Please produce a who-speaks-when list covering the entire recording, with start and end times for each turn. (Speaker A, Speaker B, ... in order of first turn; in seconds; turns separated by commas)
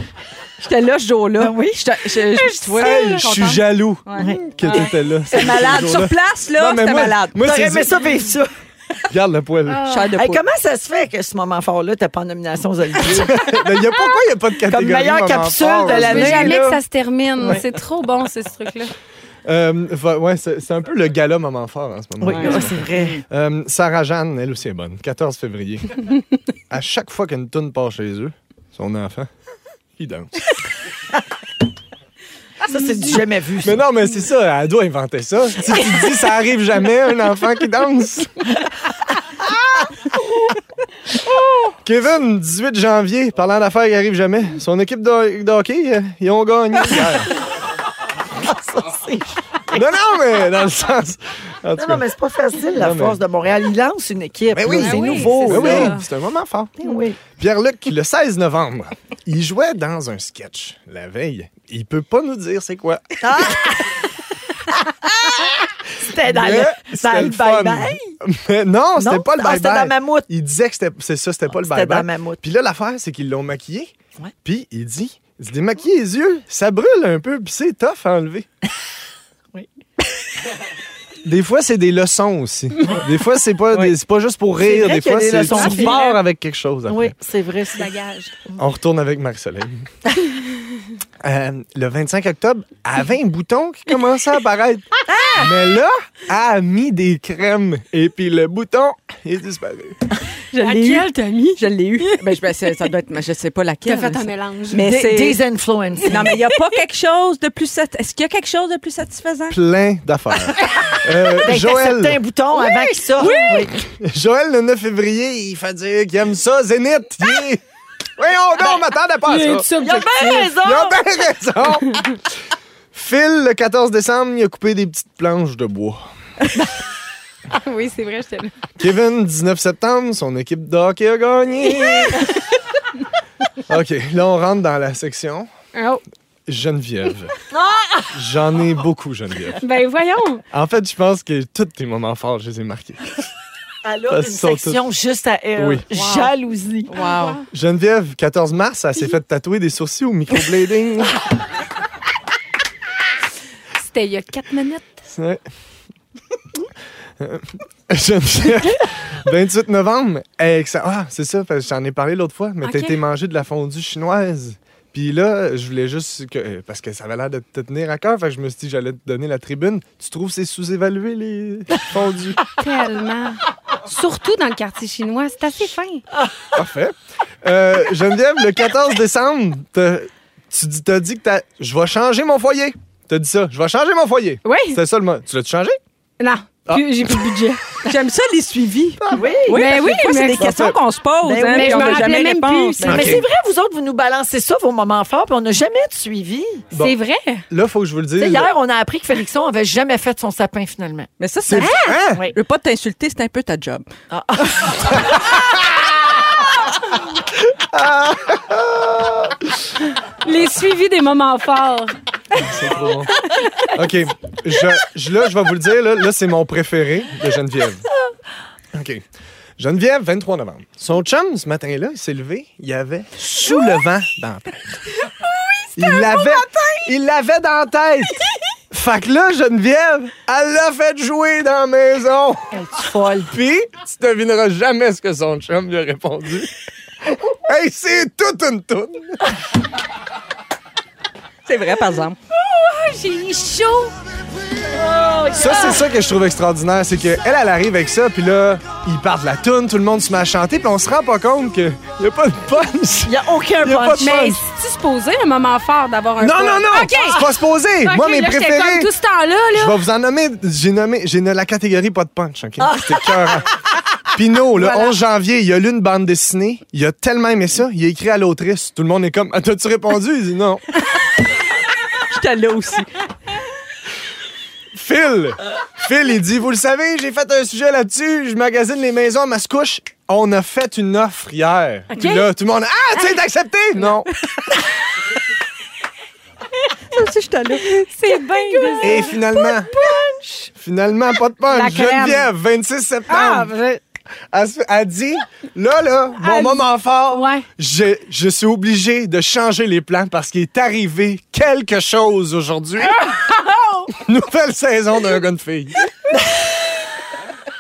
Speaker A: 0.6-7.4, Speaker B: 1.4-1.9, Speaker C: 2.4-3.6, Speaker D: 2.8-8.1, Speaker B: 7.4-8.5, Speaker D: 9.1-9.8, Speaker C: 9.7-10.1, Speaker A: 9.9-10.4, Speaker B: 10.2-13.4, Speaker D: 13.2-16.6, Speaker B: 14.7-16.8, Speaker C: 15.9-18.9, Speaker D: 19.4-26.1, Speaker B: 22.2-23.2, Speaker A: 22.3-23.2, Speaker D: 26.7-29.3, Speaker D: 30.0-30.4, Speaker B: 32.7-33.9, Speaker C: 32.7-33.2, Speaker D: 33.6-38.5, Speaker D: 41.8-47.3, Speaker B: 48.4-49.8, Speaker D: 49.7-52.1, Speaker B: 51.8-56.0, Speaker D: 52.8-53.2, Speaker D: 54.5-63.7, Speaker C: 54.7-56.0, Speaker B: 56.8-57.2, Speaker B: 63.2-64.0, Speaker B: 66.0-68.2, Speaker D: 66.2-78.5, Speaker B: 69.0-70.3, Speaker B: 71.5-72.4, Speaker D: 81.2-87.1, Speaker B: 84.6-86.1, Speaker C: 85.5-86.2, Speaker B: 86.9-87.9, Speaker C: 87.8-88.3, Speaker D: 88.6-89.9, Speaker D: 91.2-100.2, Speaker C: 100.5-102.8, Speaker A: 100.5-105.4, Speaker C: 103.9-104.8, Speaker B: 104.8-106.3, Speaker A: 106.1-109.6, Speaker D: 109.5-112.2, Speaker B: 111.4-113.7, Speaker C: 112.6-113.7, Speaker A: 113.2-113.5, Speaker D: 113.8-117.6, Speaker D: 118.2-119.7, Speaker C: 119.3-120.5, Speaker B: 119.8-121.0, Speaker D: 120.6-122.2, Speaker D: 122.9-126.0, Speaker C: 127.5-128.5, Speaker D: 128.8-132.3, Speaker C: 131.9-132.3, Speaker D: 133.7-135.5, Speaker C: 135.8-136.0, Speaker D: 136.5-137.4, Speaker B: 137.5-138.1, Speaker D: 138.1-139.6, Speaker C: 139.6-140.4, Speaker D: 140.5-143.1, Speaker B: 143.8-146.9, Speaker D: 144.1-144.8, Speaker D: 145.6-145.8, Speaker A: 145.9-146.3, Speaker A: 146.9-147.4, Speaker C: 146.9-147.5, Speaker D: 147.5-151.2, Speaker C: 153.8-155.0, Speaker D: 155.1-155.4, Speaker D: 157.2-172.4, Speaker C: 162.6-163.0, Speaker C: 172.6-176.0, Speaker D: 176.5-185.8, Speaker C: 184.4-184.8, Speaker C: 186.2-187.8, Speaker D: 186.7-187.1, Speaker A: 187.8-193.1, Speaker D: 189.0-189.3, Speaker B: 189.1-189.6, Speaker C: 189.5-190.5, Speaker D: 190.4-190.8, Speaker B: 191.2-192.1, Speaker C: 191.5-193.1, Speaker B: 192.8-196.7, Speaker D: 192.8-193.3, Speaker C: 196.8-197.4, Speaker D: 197.5-198.5, Speaker B: 198.2-201.1, Speaker A: 201.2-203.8, Speaker D: 201.4-202.2, Speaker C: 201.5-202.0, Speaker B: 204.1-205.2, Speaker D: 204.9-205.9, Speaker D: 207.4-209.6, Speaker C: 210.2-212.0, Speaker D: 212.3-213.1, Speaker C: 213.3-213.7, Speaker D: 213.7-217.9, Speaker D: 218.7-219.0, Speaker D: 219.6-224.8, Speaker C: 225.5-226.9, Speaker D: 225.8-232.5, Speaker B: 232.5-233.3, Speaker D: 233.3-236.5, Speaker D: 237.3-239.3, Speaker A: 241.5-242.2, Speaker C: 242.3-243.9, Speaker B: 244.7-245.8, Speaker D: 245.3-254.4, Speaker B: 253.1-254.3, Speaker C: 254.0-257.2, Speaker D: 256.2-258.9, Speaker C: 257.8-259.8, Speaker D: 259.5-263.5, Speaker B: 262.6-263.4, Speaker D: 264.1-270.6, Speaker C: 264.6-264.9, Speaker A: 272.1-272.9, Speaker D: 274.7-284.1, Speaker C: 282.0-282.3, Speaker A: 286.9-288.8, Speaker C: 287.9-290.5, Speaker D: 288.8-289.7, Speaker D: 290.6-293.5, Speaker C: 291.5-292.3, Speaker C: 293.1-293.8, Speaker D: 294.3-303.1, Speaker C: 296.2-297.4, Speaker C: 302.8-304.0, Speaker D: 304.0-305.9